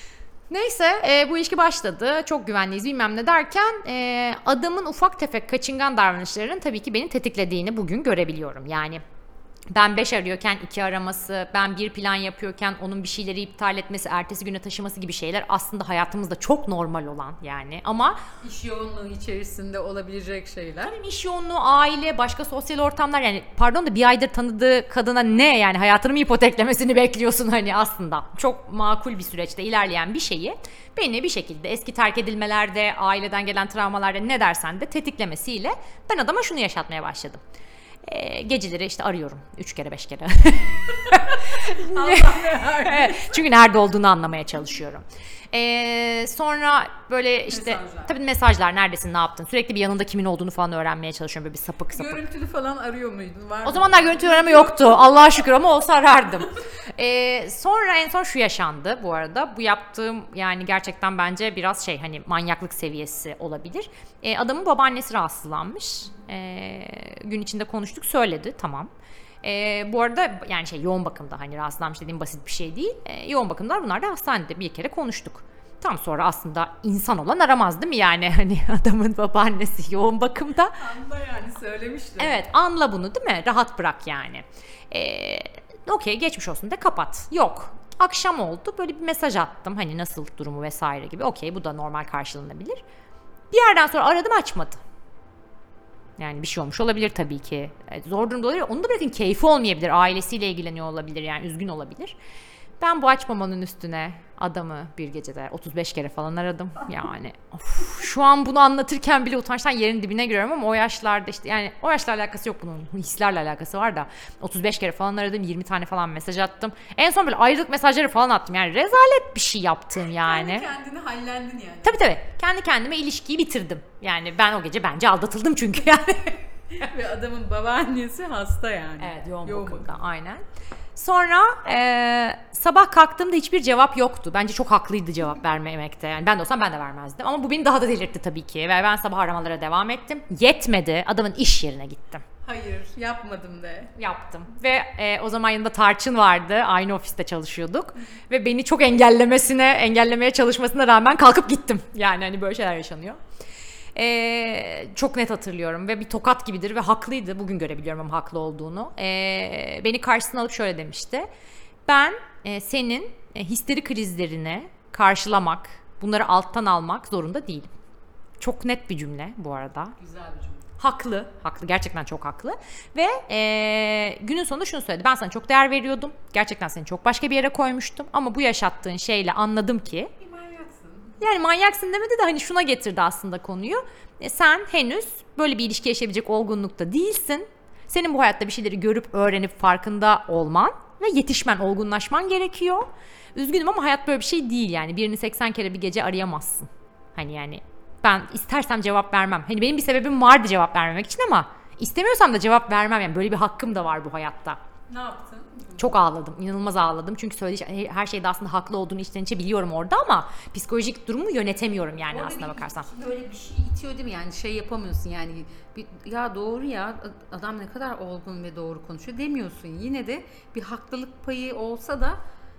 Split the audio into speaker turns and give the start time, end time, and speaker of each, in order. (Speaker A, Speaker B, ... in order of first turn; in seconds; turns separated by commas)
Speaker A: 0.5-9.0, Speaker A: 9.7-18.2, Speaker B: 18.4-20.9, Speaker A: 20.8-37.4, Speaker A: 38.0-52.2, Speaker B: 41.0-43.4, Speaker B: 47.5-48.1, Speaker B: 51.9-55.0, Speaker A: 53.6-68.9, Speaker A: 69.4-80.8, Speaker B: 80.8-82.4, Speaker A: 82.2-92.8, Speaker A: 93.5-94.8, Speaker A: 96.2-102.1, Speaker A: 102.8-120.7, Speaker B: 120.2-122.0, Speaker A: 121.8-126.9, Speaker B: 126.8-129.9, Speaker A: 129.0-130.4, Speaker A: 130.9-142.2, Speaker B: 142.4-143.9, Speaker A: 143.9-153.2, Speaker A: 153.9-161.3, Speaker A: 161.9-167.7, Speaker A: 168.4-169.9, Speaker B: 170.0-170.6, Speaker A: 170.8-180.1, Speaker B: 180.2-181.1, Speaker A: 181.2-204.6, Speaker B: 204.9-205.9, Speaker A: 205.8-212.9, Speaker B: 212.1-222.2